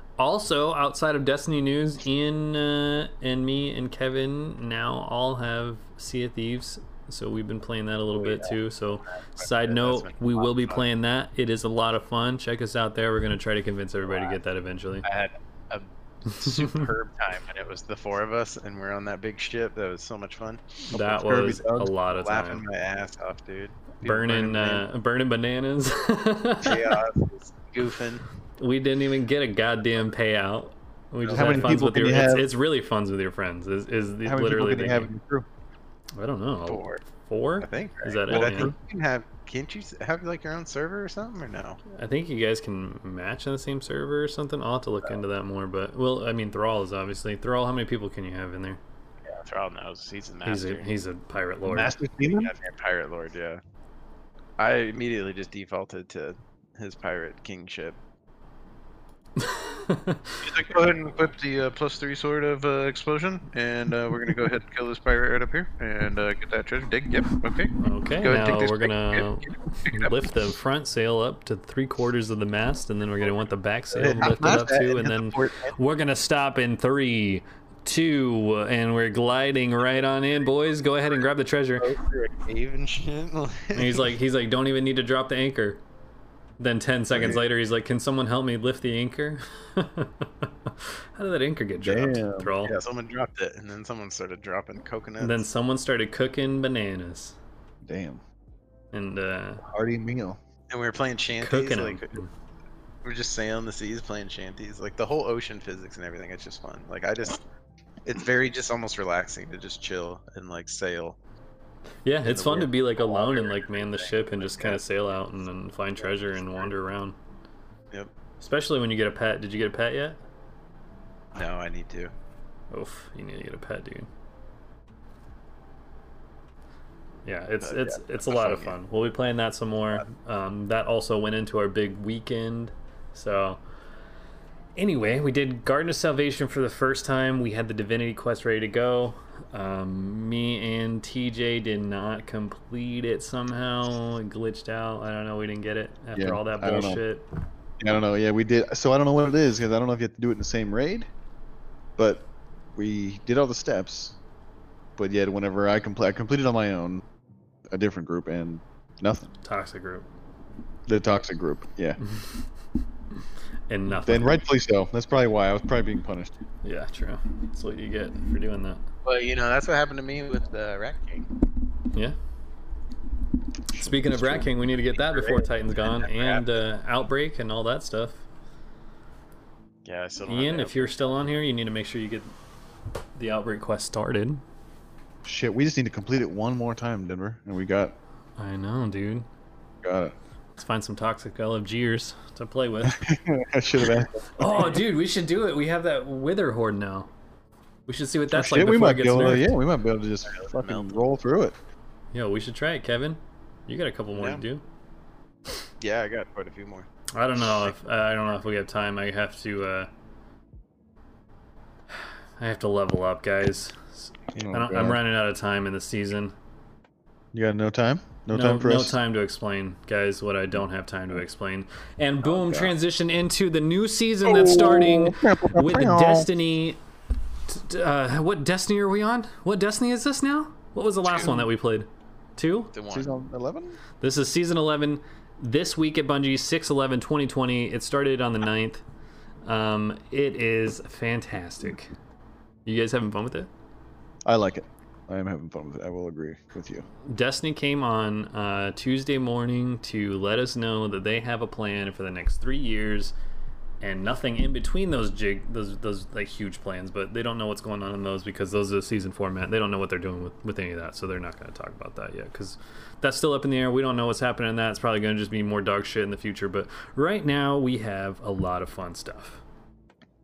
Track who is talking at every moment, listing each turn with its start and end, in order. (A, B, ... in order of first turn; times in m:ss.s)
0:00.2-0:15.1 A
0:08.2-0:08.5 B
0:09.4-0:10.8 B
0:14.1-0:14.3 B
0:15.0-0:20.6 B
0:16.4-0:16.8 A
0:20.9-0:22.6 A
0:20.9-0:21.9 C
0:22.1-0:24.8 B
0:24.0-0:27.0 A
0:26.6-0:28.2 B
0:28.6-0:35.1 A
0:31.3-0:31.7 B
0:31.3-0:32.5 C
0:34.2-0:35.5 C
0:36.2-0:38.7 A
0:36.7-0:37.0 B
0:37.6-0:41.8 B
0:38.3-0:38.7 C
0:41.9-0:48.8 A
0:49.3-0:50.9 B
0:50.4-0:52.0 A
0:51.7-0:52.5 C
0:52.4-0:53.6 B
0:54.6-0:58.0 B
0:59.4-1:00.5 A
1:00.4-1:10.2 B
1:07.8-1:21.9 A
1:14.0-1:15.7 B
1:14.0-1:15.2 C
1:21.8-1:24.1 B
1:23.7-1:25.8 A
1:26.6-1:32.8 A
1:27.1-1:27.4 C
1:31.8-1:32.6 C
1:32.7-1:35.5 B
1:35.2-1:37.4 A
1:37.8-1:38.2 C
1:38.9-1:39.6 A
1:39.6-1:40.4 C
1:40.7-1:42.2 B
1:41.4-1:42.3 A
1:43.0-1:47.4 B
1:48.0-1:51.2 B
1:52.0-1:57.2 A
1:52.3-1:54.8 B
1:56.0-1:56.7 B
1:58.4-2:00.2 A
2:01.3-2:02.1 B
2:02.7-2:04.1 A
2:07.3-2:13.6 A
2:07.6-2:08.8 B
2:14.8-2:27.3 A
2:26.2-2:27.0 C
2:27.8-2:31.1 C
2:32.0-2:34.2 C
2:35.0-2:37.0 C
2:37.7-2:39.3 C
2:39.4-2:40.1 A
2:40.9-2:42.0 C
2:43.7-2:44.4 A
2:43.9-2:46.4 C
2:46.6-2:48.8 A
2:49.0-2:51.3 B
2:53.7-2:54.5 C
2:53.8-2:58.2 A
2:55.0-2:56.6 B
2:59.8-3:01.1 B
3:00.3-3:02.3 A
3:03.2-3:04.4 A
3:05.2-3:08.0 C
3:08.4-3:09.3 A
3:09.8-3:10.2 C
3:10.6-3:13.1 A
3:12.8-3:14.8 C
3:14.4-3:17.1 A
3:17.9-3:19.5 A
3:18.3-3:21.6 C
3:20.3-3:21.0 B
3:22.1-3:24.6 A
3:24.2-3:24.4 B
3:25.8-3:26.9 B
3:27.1-3:29.9 A
3:32.4-3:36.4 A
3:34.3-3:35.0 C
3:37.3-3:39.0 C
3:38.3-3:46.8 A
3:42.2-3:42.7 C
3:44.2-3:46.3 C
3:47.5-3:52.7 A
3:52.7-3:53.1 B
3:52.9-3:53.8 C
3:54.0-3:58.8 A
3:59.4-4:01.9 A
4:02.7-4:03.5 A
4:04.2-4:06.9 C
4:07.1-4:13.1 A
4:13.8-4:29.4 A